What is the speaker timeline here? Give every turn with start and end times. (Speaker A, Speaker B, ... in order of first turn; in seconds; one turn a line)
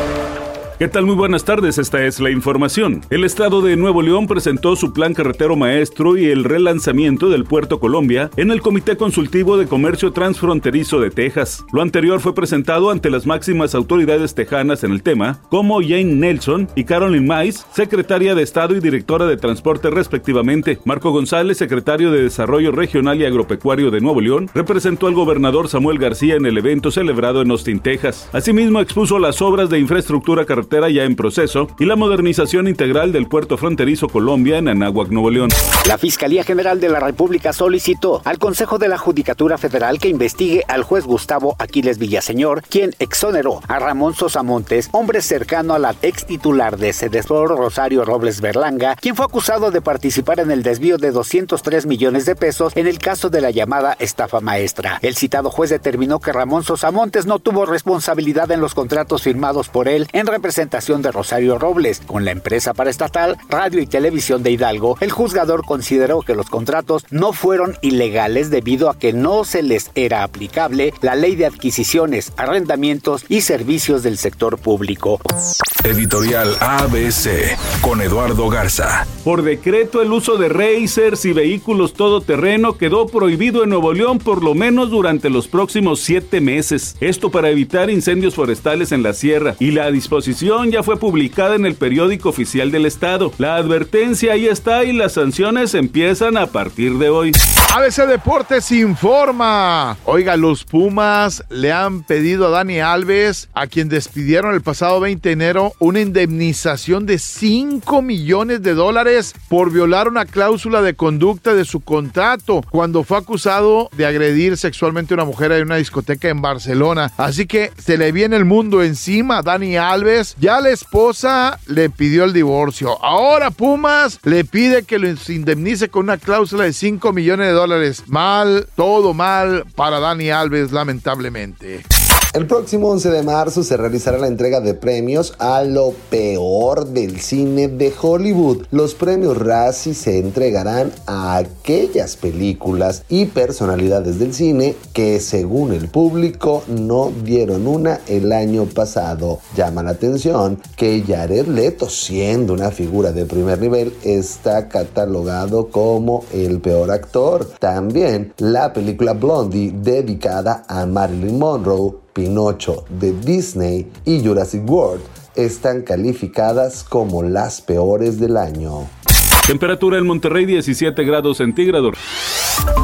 Speaker A: 0.8-35.6
Speaker B: 35.8-75.2
Speaker C: 75.8-79.1
Speaker A: 79.2-97.4
Speaker D: 97.7-131.8
Speaker E: 132.3-168.9
Speaker A: 169.4-171.9